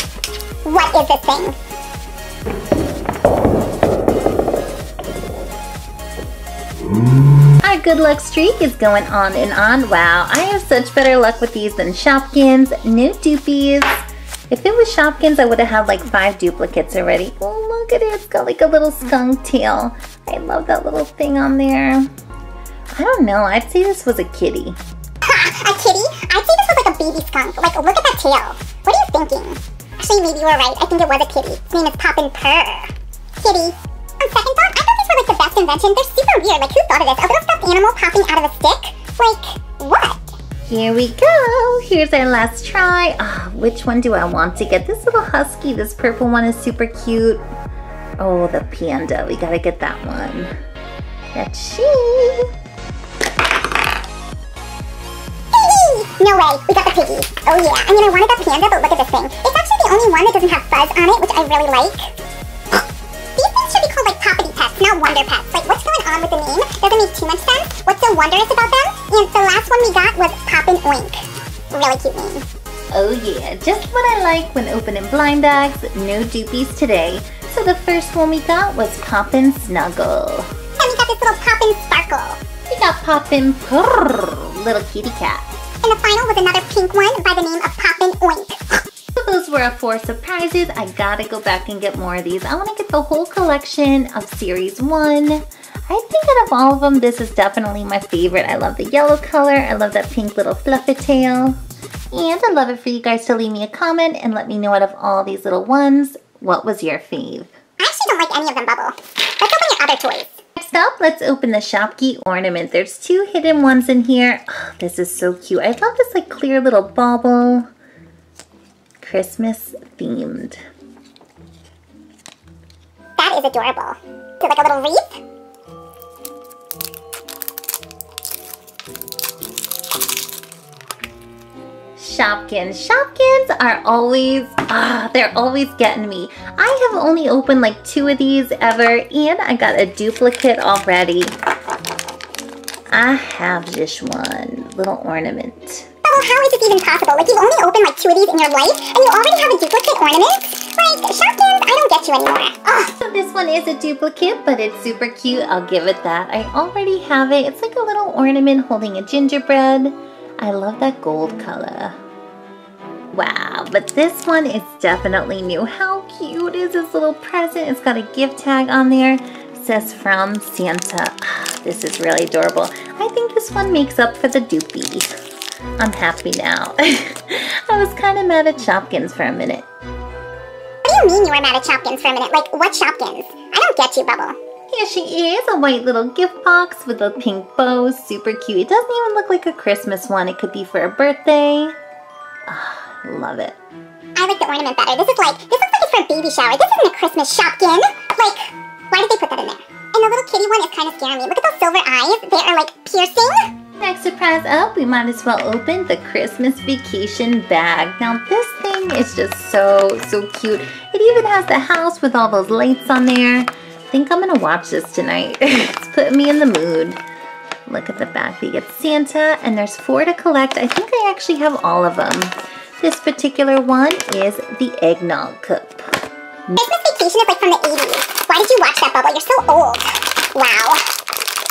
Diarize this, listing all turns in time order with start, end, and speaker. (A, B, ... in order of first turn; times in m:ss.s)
0:00.6-0:01.6 A
0:07.6-0:22.1 B
0:22.9-0:24.8 B
0:25.2-0:40.3 A
0:40.7-0:47.4 B
0:48.2-0:50.5 B
0:51.3-0:52.5 B
0:55.5-1:02.2 A
1:03.4-1:12.4 A
1:12.9-1:20.5 B
1:20.8-1:22.4 A
1:22.7-1:25.5 B
1:25.8-1:28.8 A
1:29.2-1:41.6 B
1:42.1-1:47.5 B
1:47.8-1:50.4 A
1:50.6-1:57.7 B
1:59.0-2:00.6 B
2:03.2-2:05.2 A
2:12.0-2:21.3 B
2:22.9-2:25.9 B
2:26.0-2:32.9 A
2:33.0-2:42.0 B
2:43.1-2:55.1 B
2:55.8-2:59.6 B
3:00.8-3:04.4 A
3:04.7-3:11.8 B
3:12.5-3:13.6 B
3:14.1-3:23.5 A
3:23.8-3:37.0 B
3:37.7-3:46.0 B
3:46.6-3:50.9 A